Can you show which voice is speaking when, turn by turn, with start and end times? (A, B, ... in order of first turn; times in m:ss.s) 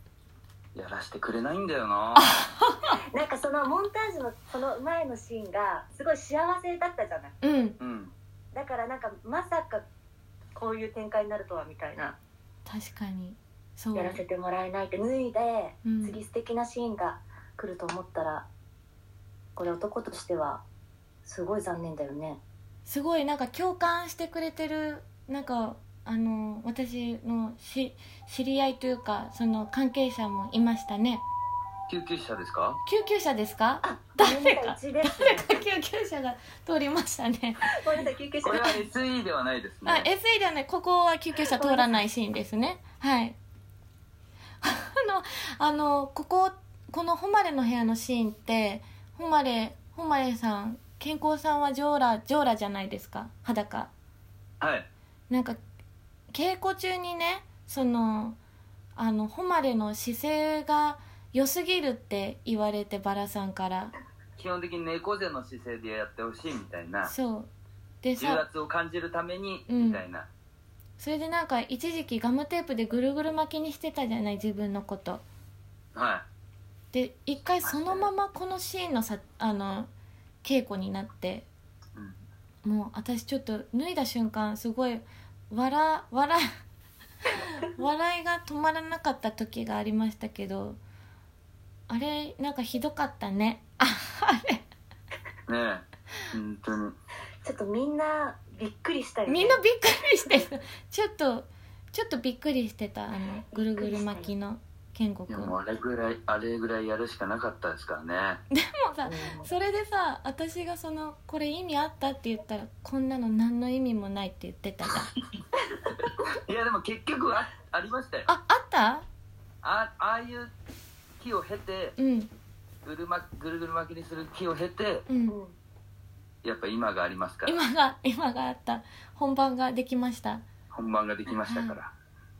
0:00.7-0:02.4 A
0:02.1-0:02.9 B
0:03.1-0:07.3 C
0:07.4-0:07.8 B
0:07.8-0:08.1 A
0:08.5-0:09.8 C
0:10.5-0:12.2 C
0:12.6-0:14.2 B
0:13.9-0:18.4 C
0:15.8-0:16.2 B
0:19.6-0:20.6 C
0:21.2-0:22.4 C
0:22.8-0:31.2 B
0:31.9-0:32.8 A
0:32.8-0:37.7 B
0:33.8-0:35.6 C
0:37.7-0:38.8 C
0:38.4-0:40.1 A
0:39.8-0:43.4 B
0:41.5-0:42.1 C
0:44.6-0:53.9 B
0:54.6-0:54.9 A
0:55.3-0:55.6 B
0:56.3-0:58.4 B
0:59.0-1:03.9 B
1:04.4-1:07.1 A
1:07.0-1:07.5 B
1:08.0-1:08.4 B
1:08.2-1:10.3 A
1:09.7-1:10.0 B
1:11.0-1:15.2 B
1:15.9-1:16.2 A
1:16.9-1:19.9 B
1:17.6-1:18.1 A
1:20.4-1:21.5 B
1:22.6-1:26.4 B
1:27.3-1:30.8 B
1:31.9-1:34.6 B
1:35.5-1:36.9 A
1:37.4-1:39.6 C
1:39.3-1:45.5 B
1:43.3-1:44.3 C
1:45.3-1:48.4 A
1:48.5-1:55.1 B
1:49.0-1:49.5 C
1:56.0-1:58.3 A
1:58.3-1:59.0 B
1:59.6-2:00.5 A
2:01.2-2:02.0 A
2:02.0-2:02.3 B
2:02.8-2:05.0 A
2:05.1-2:05.4 B
2:05.3-2:05.5 C
2:06.4-2:07.6 A
2:07.4-2:10.4 B
2:10.7-2:11.9 A
2:11.4-2:11.8 B